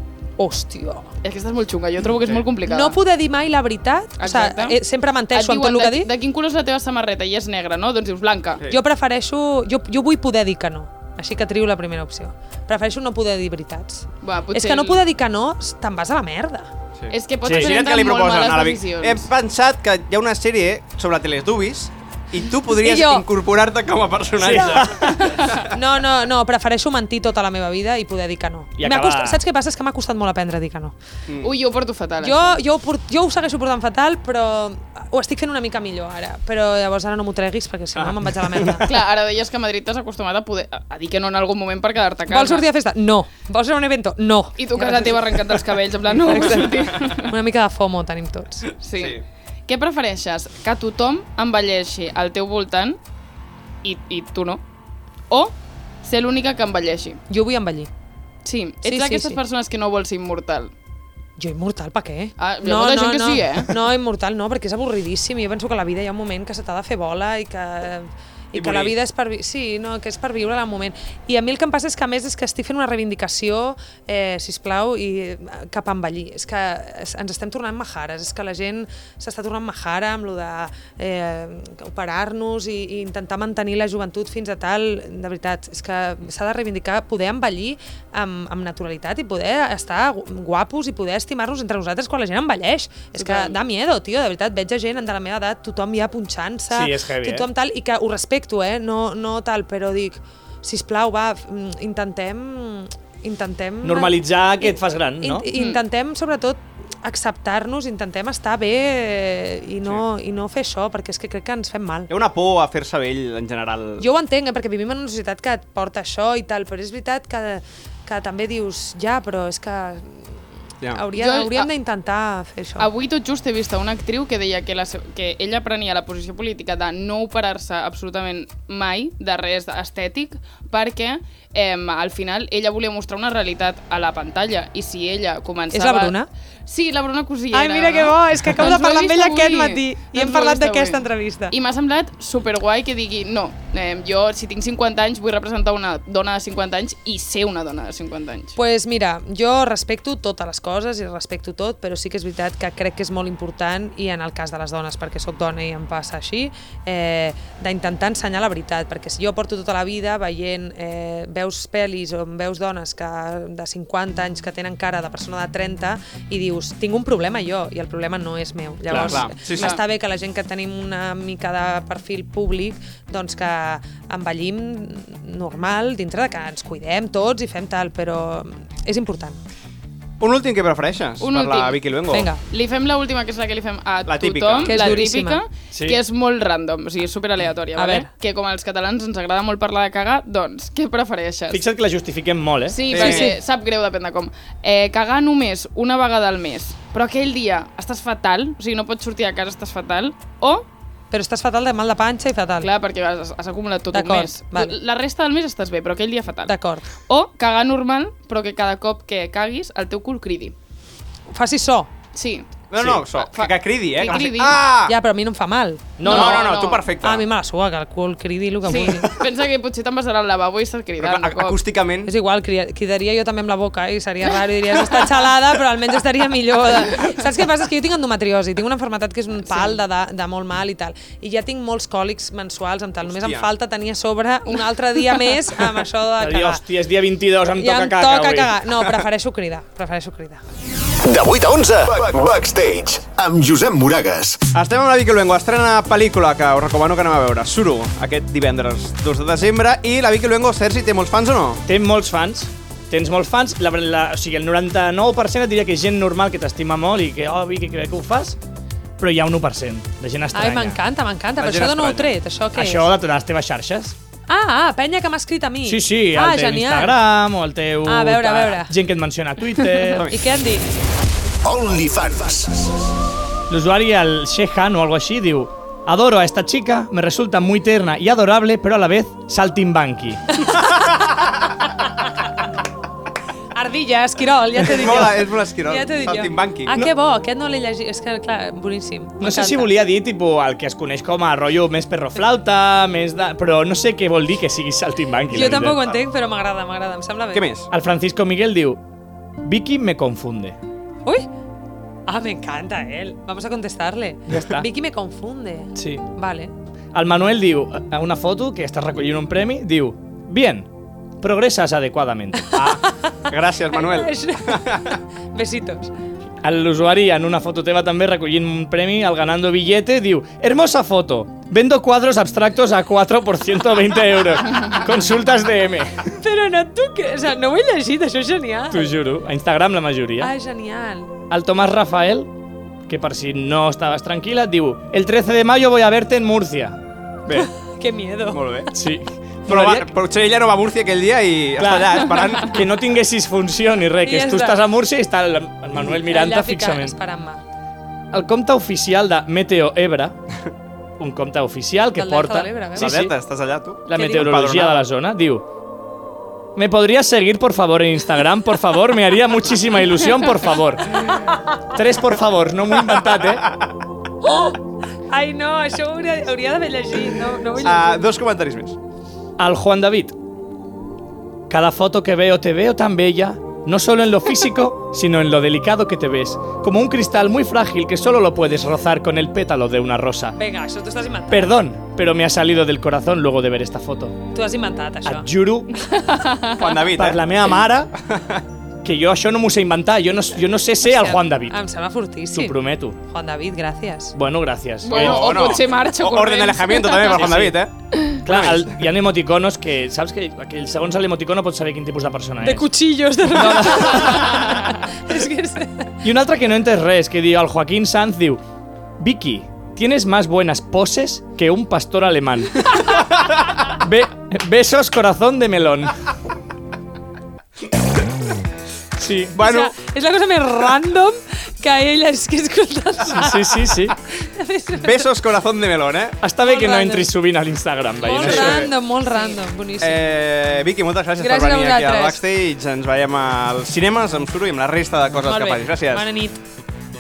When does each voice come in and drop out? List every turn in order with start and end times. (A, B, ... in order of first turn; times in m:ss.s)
0:00.4-0:01.1 A
0:01.2-0:03.0 B
0:02.6-0:06.1 A
0:04.2-0:04.8 B
0:05.3-0:08.7 B
0:08.7-0:16.7 A
0:14.2-0:15.0 B
0:17.0-0:25.6 C
0:17.1-0:19.3 B
0:17.4-0:17.8 D
0:22.8-0:23.3 A
0:24.4-0:25.4 D
0:24.5-0:24.9 A
0:25.2-0:25.6 B
0:25.5-0:31.0 A
0:28.8-0:29.4 D
0:31.3-0:31.6 C
0:31.4-0:32.6 B
0:32.2-0:39.0 A
0:38.8-0:42.7 B
0:42.3-0:48.7 A
0:44.6-0:47.4 B
0:48.8-0:53.0 B
0:49.0-0:49.2 C
0:53.8-0:54.6 B
0:55.3-0:57.2 B
0:57.3-0:57.9 A
0:58.4-1:00.7 B
0:58.8-0:59.4 A
1:01.4-1:52.1 A
1:02.4-1:03.8 B
1:08.5-1:09.0 C
1:33.2-1:33.6 B
1:36.7-1:37.5 D
1:43.8-1:45.5 D
1:45.5-1:45.8 B
1:52.1-1:54.1 C
1:54.0-2:02.9 A
2:01.1-2:01.7 B
2:02.8-2:28.6 B
2:15.7-2:16.3 A
2:17.5-2:21.6 A
2:28.6-2:59.4 A
2:48.9-2:49.3 D
2:49.0-2:49.8 C
2:49.5-2:49.8 B
3:00.2-3:02.3 C
3:01.2-3:01.8 B
3:02.1-3:02.4 A
3:02.5-3:11.6 B
3:04.1-3:05.0 C
3:04.6-3:05.4 A
3:05.7-3:06.0 D
3:07.8-3:08.1 A
3:11.5-3:13.0 D
3:12.7-3:20.7 B
3:12.9-3:13.3 C
3:12.9-3:13.4 A
3:21.1-3:22.7 A
3:22.6-3:30.6 B
3:23.9-3:24.8 A
3:26.5-3:26.9 A
3:31.3-3:31.9 A
3:32.1-3:32.5 B
3:32.7-3:35.0 C
3:32.8-3:33.0 D
3:33.1-3:34.6 B
3:34.9-3:39.2 A
3:36.0-3:36.4 D
3:36.0-3:36.9 B
3:36.0-3:37.3 C
3:38.6-3:41.6 B
3:41.0-3:42.1 C
3:42.0-3:56.6 A
3:53.0-3:53.5 C
3:56.2-3:58.6 D
3:57.5-4:00.4 A
4:01.0-4:04.5 E
4:04.5-4:11.6 C
4:11.7-4:18.4 D
4:19.0-4:20.8 D
4:20.3-4:22.9 A
4:21.4-4:22.2 C
4:22.5-4:24.0 D
4:24.3-4:27.0 A
4:25.6-4:30.1 D
4:27.8-4:28.7 A
4:29.7-4:30.8 A
4:29.9-4:30.4 C
4:31.4-4:32.9 E
4:33.5-4:40.6 D
4:43.5-4:49.7 A
4:44.6-4:46.8 C
4:49.2-4:55.8 D
4:55.3-4:57.5 A
4:57.3-4:57.7 C
4:57.7-4:58.8 D
4:59.4-5:00.6 D
5:02.1-5:06.5 A
5:04.3-5:04.7 D
5:05.8-5:06.0 D
5:06.9-5:10.7 D
5:11.2-5:12.8 D
5:12.6-5:13.1 A
5:13.3-5:15.0 C
5:13.7-5:15.9 A
5:16.4-5:26.1 D
5:26.2-5:29.0 A
5:28.7-5:30.3 D
5:30.2-5:31.2 A
5:31.3-5:32.3 D
5:32.9-5:37.5 D
5:37.3-5:38.7 A
5:38.3-5:38.7 C
5:38.7-5:39.9 D
5:39.5-5:42.6 C
5:41.6-5:47.0 D
5:44.0-5:44.6 A
5:45.8-5:47.4 A
5:48.1-5:50.2 D
5:51.0-5:53.2 D
5:52.0-5:53.1 A
5:52.8-5:54.9 C
5:53.9-5:55.5 D
5:53.9-5:54.4 A
5:56.6-6:03.6 D
6:03.0-6:03.7 C
6:04.2-6:08.1 A
6:07.6-6:08.8 C
6:09.4-6:10.2 D
6:11.5-6:20.4 D
6:20.4-6:21.6 A
6:21.3-6:24.2 D
6:24.3-6:25.3 A
6:25.0-6:25.7 D
6:25.7-6:26.8 B
6:26.6-6:27.2 C
6:27.0-6:27.9 D
6:28.0-6:28.4 C
6:28.8-6:31.6 D
6:30.8-6:34.2 A
6:32.3-6:33.0 D
6:34.2-6:35.4 D
6:34.8-6:38.2 B
6:34.9-6:37.7 C
6:37.2-6:37.6 D
6:38.2-6:42.7 D
6:38.3-6:38.8 C
6:42.4-6:45.9 A
6:43.2-6:44.5 D
6:46.0-6:48.4 D
6:49.0-6:56.0 D
6:59.0-6:59.4 D
6:59.4-6:59.8 C
6:59.4-7:05.1 A
7:03.0-7:04.0 D
7:04.8-7:06.2 C
7:06.2-7:08.7 D
7:06.4-7:07.1 A
7:08.0-7:10.0 A
7:08.1-7:08.7 C
7:09.8-7:16.1 C
7:11.2-7:12.2 A
7:15.3-7:16.4 A